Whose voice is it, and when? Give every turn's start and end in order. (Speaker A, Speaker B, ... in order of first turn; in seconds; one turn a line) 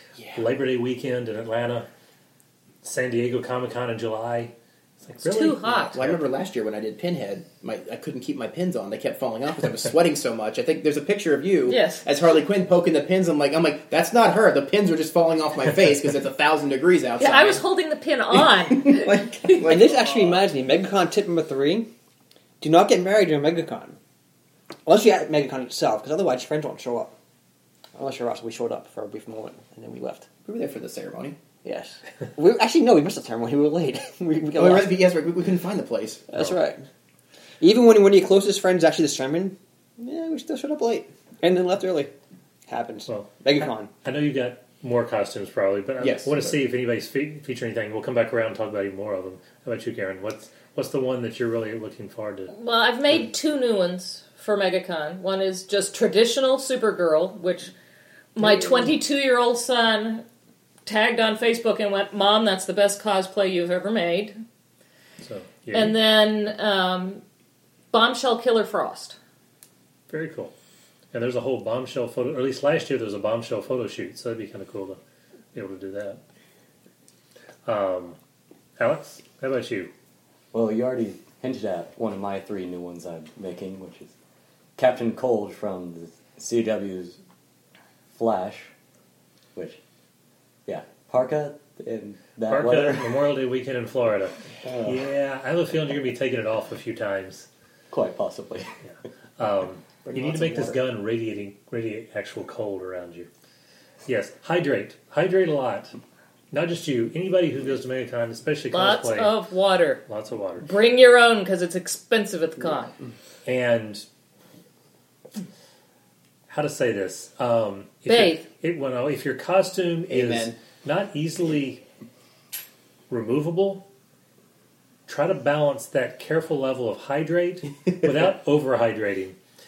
Speaker A: 0.2-0.4
Speaker B: 0.3-1.9
Speaker B: 2.8-6.2
Speaker C: 5.2-6.0
Speaker A: 5.9-17.6
Speaker C: 11.7-12.0
Speaker C: 17.2-19.5
Speaker A: 18.4-20.4
Speaker D: 19.7-21.9
Speaker D: 22.6-24.0
Speaker D: 24.9-27.1
Speaker D: 28.0-30.3
Speaker A: 30.4-31.4
Speaker D: 31.6-35.0
Speaker A: 34.6-36.2
Speaker D: 36.3-36.9
Speaker D: 37.6-42.1
Speaker D: 42.7-43.9
Speaker B: 44.0-52.5
Speaker A: 46.0-46.6
Speaker C: 52.5-57.7
Speaker C: 58.4-60.2
Speaker C: 60.9-64.3
Speaker B: 65.2-66.0
Speaker C: 65.7-67.2
Speaker C: 67.9-69.2
Speaker B: 70.1-70.5
Speaker B: 71.1-75.0
Speaker B: 75.5-76.2
Speaker B: 77.7-78.2
Speaker B: 78.8-79.9
Speaker E: 80.5-84.1
Speaker E: 84.8-87.2
Speaker E: 88.1-88.7
Speaker E: 90.7-93.2
Speaker B: 92.5-97.5
Speaker E: 94.6-95.0
Speaker E: 97.9-98.7
Speaker B: 99.4-103.3
Speaker A: 100.0-100.8
Speaker B: 104.1-105.9
Speaker B: 106.5-109.3
Speaker C: 108.7-110.0
Speaker B: 110.1-110.7
Speaker C: 110.6-113.0
Speaker B: 113.5-114.0
Speaker B: 116.5-121.8
Speaker C: 118.1-118.5
Speaker A: 120.1-120.6
Speaker B: 123.1-123.8
Speaker B: 125.1-129.4